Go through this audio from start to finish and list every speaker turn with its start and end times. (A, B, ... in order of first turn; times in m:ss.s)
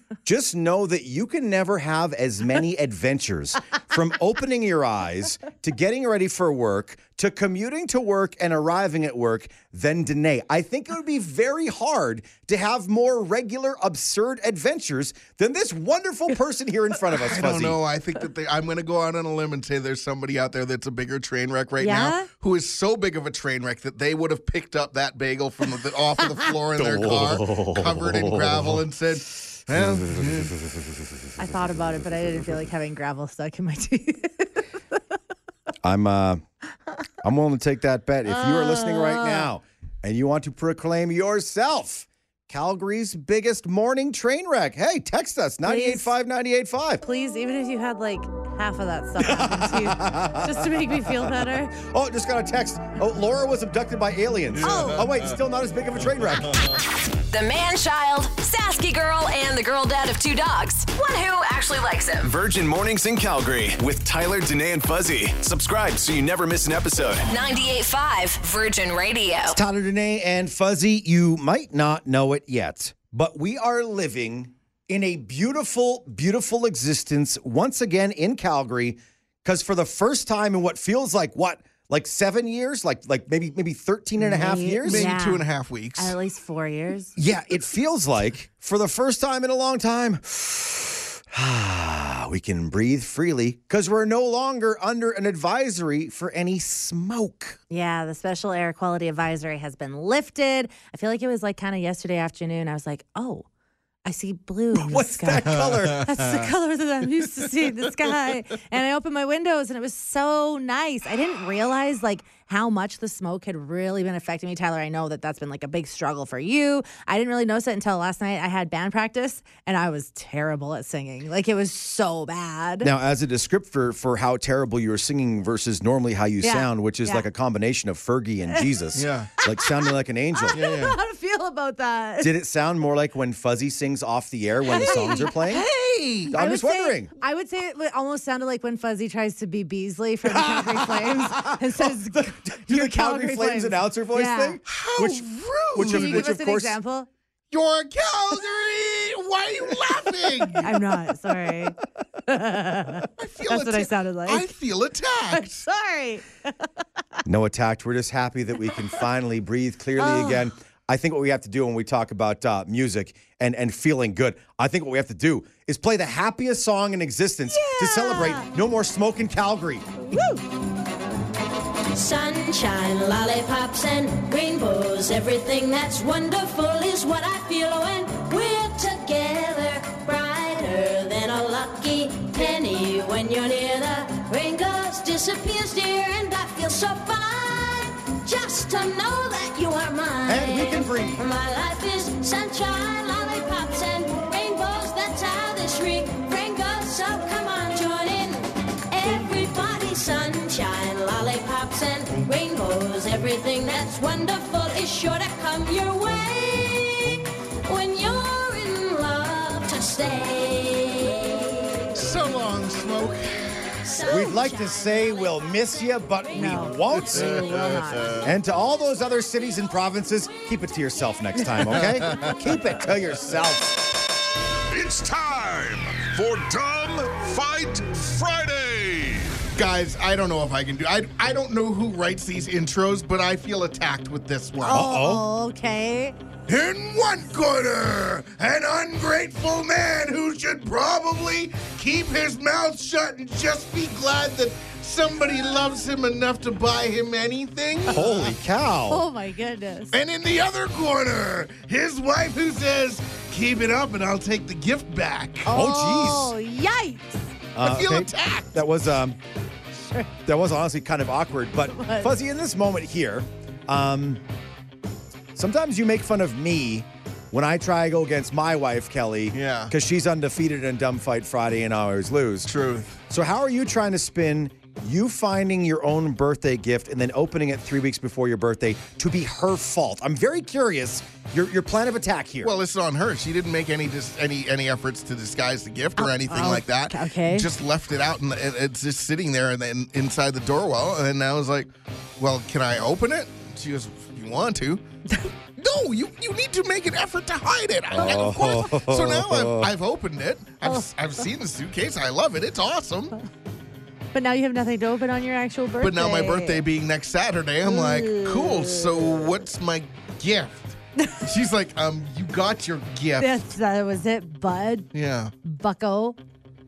0:00.2-0:17.8 A
0:17.1-0:30.5 B
0:21.8-0:22.3 C
0:26.7-0:28.8 A
0:29.8-0:30.1 A
0:31.4-0:34.6 C
0:35.8-0:36.4 A
0:37.2-0:47.0 A
0:38.2-0:39.5 C
0:45.6-0:46.1 C
0:47.0-0:51.8 C
0:49.2-0:56.6 A
0:54.5-0:55.4 B
0:54.6-0:55.1 C
0:56.4-0:56.8 B
0:57.3-1:02.3 D
1:02.2-1:07.3 E
1:07.2-1:09.6 D
1:09.5-1:25.2 A
1:24.2-1:25.4 C
1:24.8-1:26.1 B
1:26.0-1:27.1 C
1:27.2-1:37.6 A
1:37.7-1:43.5 C
1:44.0-2:02.9 C
1:44.7-1:46.5 A
2:02.8-2:10.6 A
2:06.4-2:07.3 C
2:08.9-2:09.3 B
2:09.4-2:12.3 C
2:10.5-2:11.0 B
2:12.2-2:15.6 A
2:14.6-2:15.3 C
2:14.8-2:16.4 B
2:16.3-2:17.1 A
2:16.3-2:24.6 C
2:20.2-2:26.8 A
2:24.7-2:26.3 B
2:25.8-2:27.1 C
2:27.5-2:30.7 B
2:30.6-2:34.5 C
2:33.2-2:35.6 B
2:35.3-2:36.5 C
2:37.2-2:50.1 A
2:40.0-2:40.5 C
2:47.5-2:48.5 C
2:50.1-2:50.4 C
2:51.9-3:31.9 F
3:10.2-3:11.2 A
3:31.9-3:33.3 B
3:33.8-3:37.4 F
3:34.0-3:37.5 A
3:36.3-3:38.2 C
3:36.9-3:38.3 B
3:38.2-3:43.9 A
3:41.7-3:42.3 B
3:44.7-3:49.5 G
3:49.5-3:54.8 B
3:54.6-3:56.2 C
3:54.7-3:55.2 A
3:56.5-4:08.3 B
4:07.9-4:09.0 A
4:08.9-4:09.9 C
4:09.9-4:15.5 B
4:15.5-4:17.2 C
4:15.5-4:16.3 A
4:17.5-4:19.2 A
4:17.6-4:18.5 B
4:19.8-4:20.1 C
4:20.2-4:24.2 A
4:21.6-4:22.1 C
4:25.3-4:32.5 A
4:29.3-4:29.7 B
4:32.4-4:33.0 B
4:33.1-4:42.5 A
4:42.4-4:54.8 B
4:46.0-4:47.5 C
4:55.6-5:03.1 B
4:57.9-4:59.7 A
5:04.1-5:06.6 C
5:05.8-5:13.3 B
5:07.6-5:09.2 C
5:13.2-5:14.9 C
5:14.9-5:15.3 B
5:15.4-5:16.2 C